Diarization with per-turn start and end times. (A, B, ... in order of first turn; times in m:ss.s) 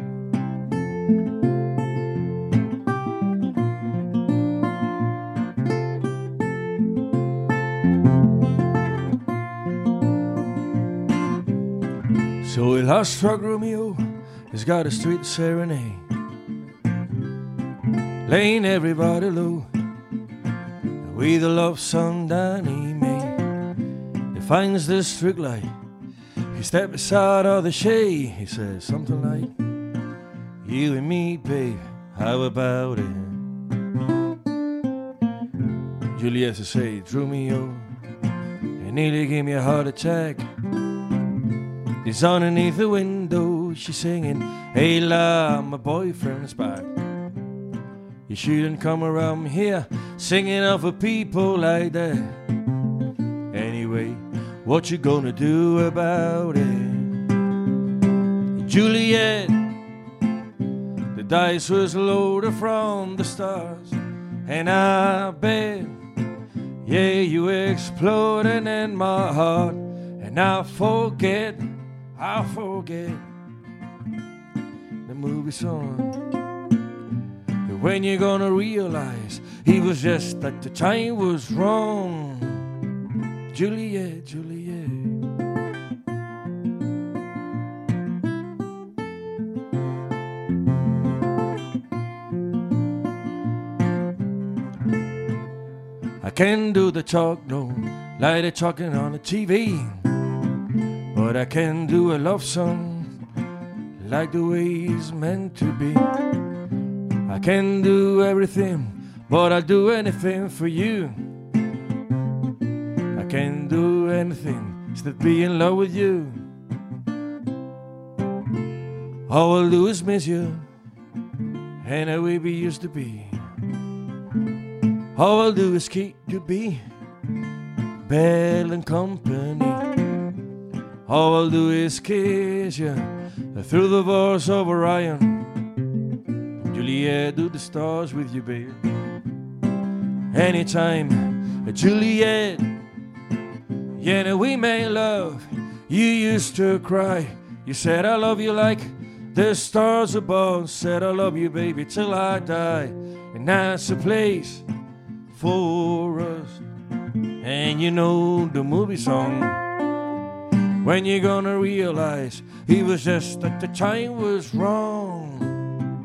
0:12.4-0:16.0 A
0:18.2-0:19.7 A
0:21.0-0:23.4 A
0:24.3-0:25.7 A
0:26.5-0:29.5 A
0:30.6-0:33.4 A
0:36.1-0:37.8 A
0:38.8-0:40.4 A
0:42.0-0:46.9 A
0:48.3-0:52.4 A
0:53.5-0:57.2 A
0:58.6-0:59.7 A
1:01.1-1:05.9 A
1:06.8-1:11.6 A
1:12.2-1:13.2 A
1:15.0-1:16.2 A
1:17.7-1:22.6 A
1:23.5-1:25.1 A
1:36.2-1:40.0 A
1:41.1-1:43.1 A
1:44.0-1:46.0 A
1:47.3-1:51.1 A
1:53.1-1:56.4 A
1:59.3-2:00.6 A
2:01.8-2:03.4 A
2:05.1-2:06.8 A
2:08.1-2:09.8 A
2:11.1-2:15.4 A
2:16.6-2:18.8 A
2:20.3-2:22.7 A
2:24.0-2:34.6 A
2:35.3-2:36.6 A
2:37.4-2:39.6 A
2:40.8-2:45.6 A